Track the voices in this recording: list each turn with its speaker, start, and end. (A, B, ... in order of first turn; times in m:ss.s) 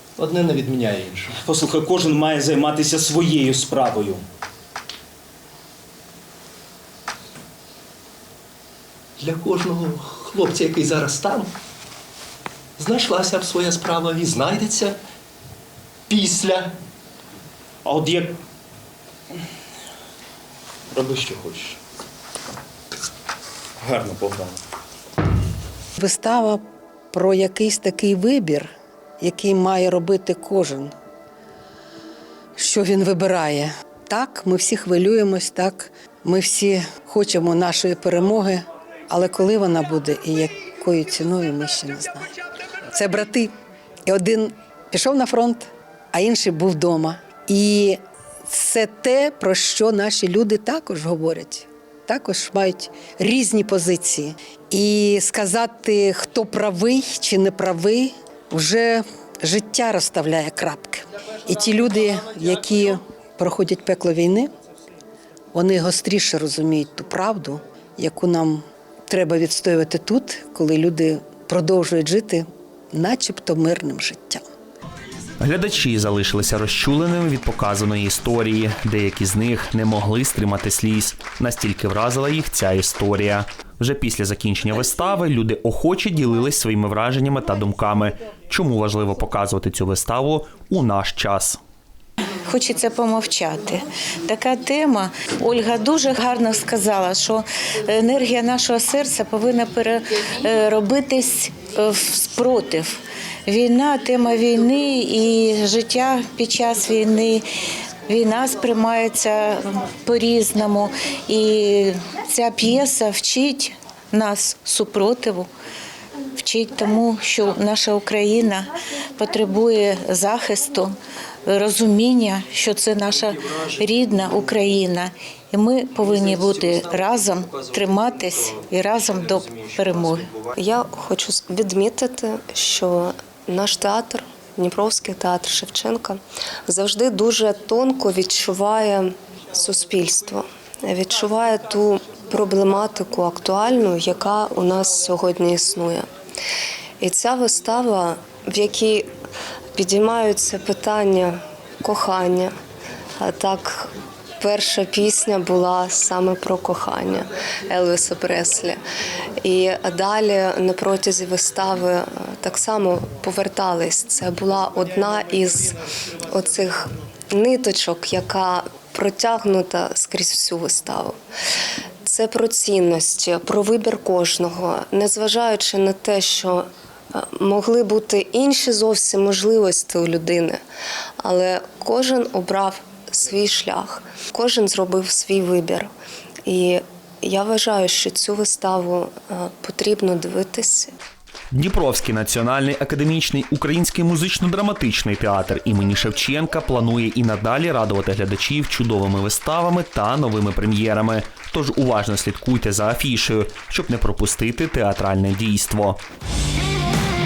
0:00.2-0:01.4 A
0:01.4-0:04.2 B
0:09.2-0:11.5 A
0:12.8-0:15.0 A
0:16.1-0:16.8 A
0:17.8-0:18.4 B
0:20.9-0:21.8 B
0:23.8-0:24.6 B
0:26.0-0:30.9 C
0:32.6-0:42.3 C
0:42.9-0:43.5 C
0:44.1-1:04.5 C
1:05.5-1:14.4 C
1:15.4-1:31.6 D
1:32.5-1:47.4 E
1:48.1-1:55.5 E
1:56.4-2:00.9 E
2:01.5-2:10.4 E
2:10.5-2:26.1 F
2:27.0-2:29.1 F
2:29.8-2:32.5 F
2:33.2-2:33.9 F
2:34.4-2:38.8 F
2:39.4-2:51.2 F
2:52.0-3:00.6 F
3:01.2-3:05.9 F
3:06.5-3:10.9 F
3:11.5-3:26.0 D